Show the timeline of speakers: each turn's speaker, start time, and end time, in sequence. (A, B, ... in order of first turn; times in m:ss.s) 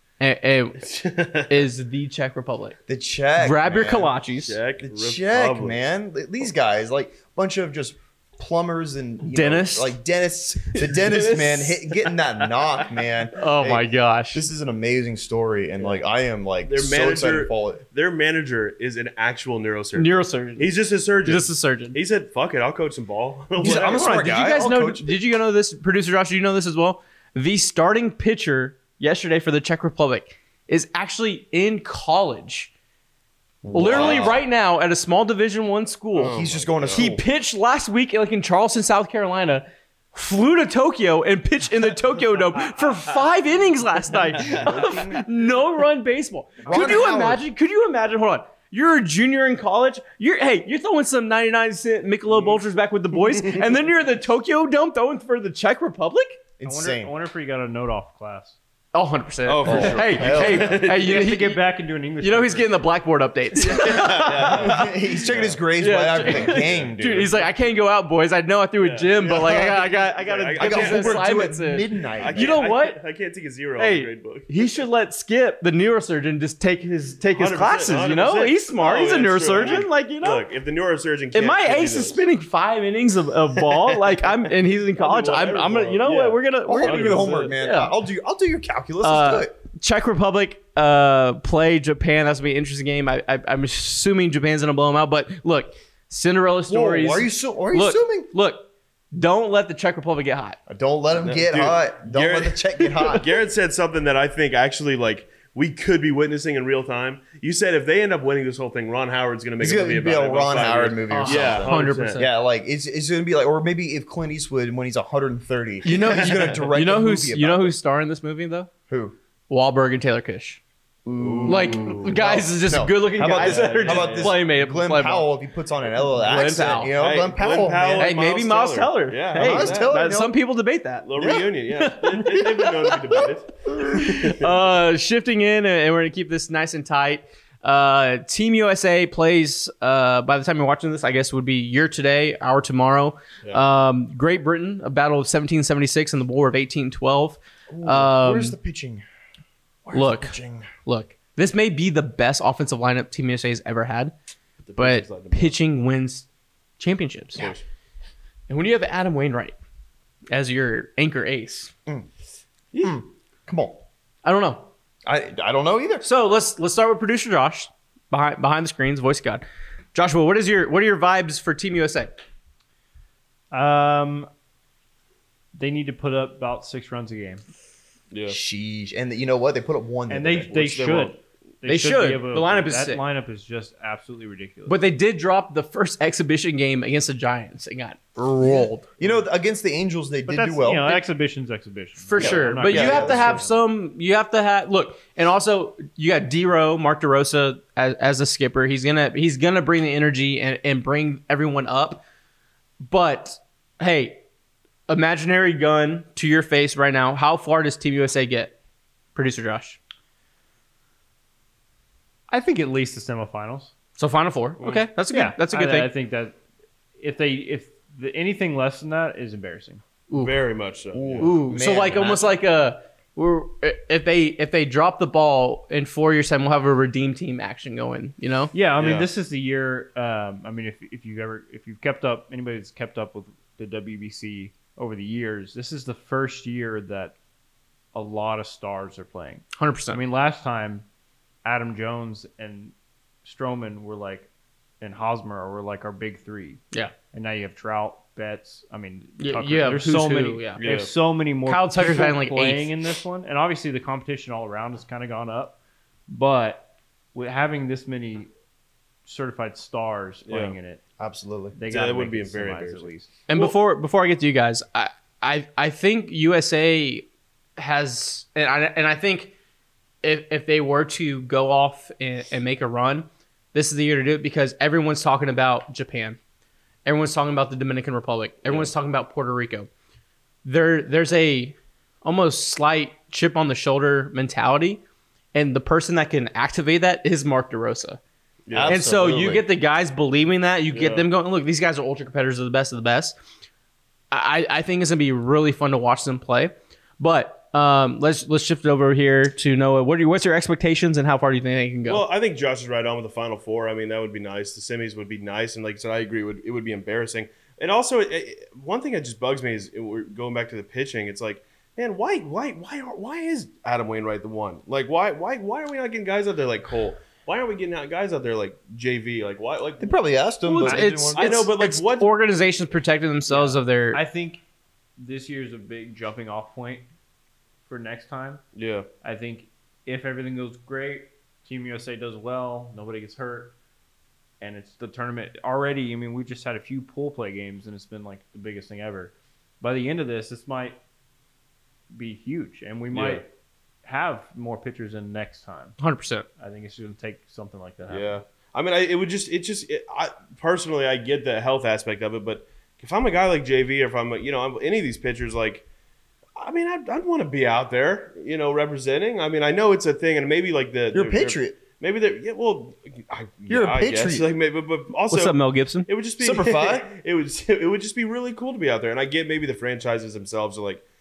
0:00.2-0:00.9 A
0:00.8-0:01.7 B
0:01.5-0:02.8 A
0:02.9-0:04.2 C
0:03.4-0:04.6 A
0:04.4-0:05.8 B
0:04.9-0:17.8 C
0:09.2-0:10.0 A
0:10.8-0:11.8 A
0:13.4-0:14.4 A
0:15.8-0:16.0 B
0:16.6-0:24.2 B
0:20.0-0:22.0 A
0:23.6-0:25.2 C
0:23.7-0:32.7 A
0:33.6-0:34.4 C
0:33.7-0:36.4 A
0:33.8-0:34.4 B
0:36.1-0:37.1 B
0:36.2-0:37.2 C
0:36.9-0:56.4 A
0:44.4-0:45.0 B
0:44.6-0:45.2 C
0:46.6-0:47.4 C
0:56.6-0:57.1 C
0:56.6-0:58.6 D
0:58.9-1:01.6 A
0:59.4-1:01.3 B
0:59.6-1:00.9 C
1:01.0-1:02.8 D
1:02.2-1:04.9 A
1:03.6-1:05.6 B
1:04.5-1:07.5 C
1:05.8-1:13.0 A
1:06.2-1:07.0 B
1:08.8-1:11.4 B
1:09.3-1:09.7 C
1:10.6-1:12.6 C
1:12.2-1:14.5 B
1:13.8-1:20.4 A
1:17.3-1:22.3 B
1:21.3-1:27.9 A
1:23.9-1:27.6 B
1:26.7-1:29.5 C
1:29.0-1:40.6 A
1:36.7-1:38.3 C
1:40.7-1:43.3 C
1:41.2-1:52.2 B
1:49.6-1:57.8 C
1:51.1-1:52.3 A
1:55.8-1:58.7 A
1:56.1-1:56.6 B
1:58.9-1:59.2 C
1:59.5-2:00.6 A
2:01.0-2:08.2 C
2:01.2-2:02.2 B
2:01.5-2:05.3 A
2:03.2-2:04.4 B
2:06.1-2:06.9 A
2:06.9-2:09.9 B
2:08.0-2:28.6 A
2:09.4-2:10.4 C
2:11.0-2:14.6 B
2:11.2-2:11.5 C
2:27.7-2:29.0 C
2:29.8-2:30.7 C
2:29.9-2:34.1 A
2:34.6-2:35.6 B
2:34.8-2:36.3 A
2:36.8-2:37.5 A
2:37.3-2:37.6 B
2:38.5-2:39.6 A
2:40.3-2:41.7 A
2:42.7-2:43.0 B
2:42.8-2:43.8 C
2:44.2-2:44.7 A
2:45.1-2:46.0 C
2:46.0-2:52.1 A
2:53.5-2:54.3 D
2:55.5-2:57.4 D
2:58.1-2:58.4 B
2:58.3-3:00.7 C
3:00.1-3:04.9 D
3:00.5-3:01.2 B
3:01.6-3:03.0 A
3:04.7-3:08.9 A
3:08.2-3:10.9 C
3:10.3-3:13.5 D
3:12.0-3:22.0 A
3:12.2-3:13.4 C
3:22.8-3:24.2 A
3:24.9-3:28.6 A
3:29.2-3:29.8 A
3:32.3-3:33.7 D
3:34.0-3:35.9 A
3:34.6-3:34.9 B
3:35.1-3:36.4 D
3:37.0-3:39.8 D
3:40.1-3:41.4 B
3:41.0-3:42.4 C
3:41.2-3:48.5 A
3:41.9-3:42.2 B
3:48.5-3:57.2 D
3:48.8-3:49.1 B
3:57.9-4:00.9 D
3:59.6-4:00.0 A
4:01.4-4:04.3 D
4:04.8-4:15.6 D
4:09.2-4:10.6 A
4:10.6-4:10.9 B
4:11.5-4:12.9 A
4:16.1-4:18.3 D
4:19.0-4:20.8 D
4:20.3-4:20.6 B
4:21.0-4:21.6 C
4:21.5-4:23.1 D
4:21.7-4:23.6 B
4:23.3-4:29.3 A
4:30.0-4:36.2 A
4:36.8-4:39.7 A
4:38.5-4:38.7 B
4:40.4-4:44.8 A
4:45.3-4:48.0 A
4:48.5-4:48.8 B
4:48.5-4:49.4 C
4:48.7-4:53.2 A
4:50.7-4:51.1 B
4:54.1-5:02.0 A
5:01.9-5:20.0 B
5:19.8-5:21.3 C
5:20.5-5:24.0 A
5:20.6-5:21.0 D
5:21.1-5:22.1 B
5:23.3-5:24.4 D
5:25.0-5:26.9 D
5:27.7-5:28.4 D
5:28.6-5:28.9 B
5:29.0-5:33.6 D
5:34.4-5:40.8 D
5:41.9-5:43.3 D
5:42.9-5:43.2 B
5:43.8-5:45.8 D
5:45.8-5:46.3 A
5:46.4-5:48.2 D
5:47.9-5:55.6 B
5:56.4-6:10.8 B
6:00.9-6:01.6 C
6:03.5-6:04.3 C
6:05.1-6:05.9 A
6:06.2-6:06.9 C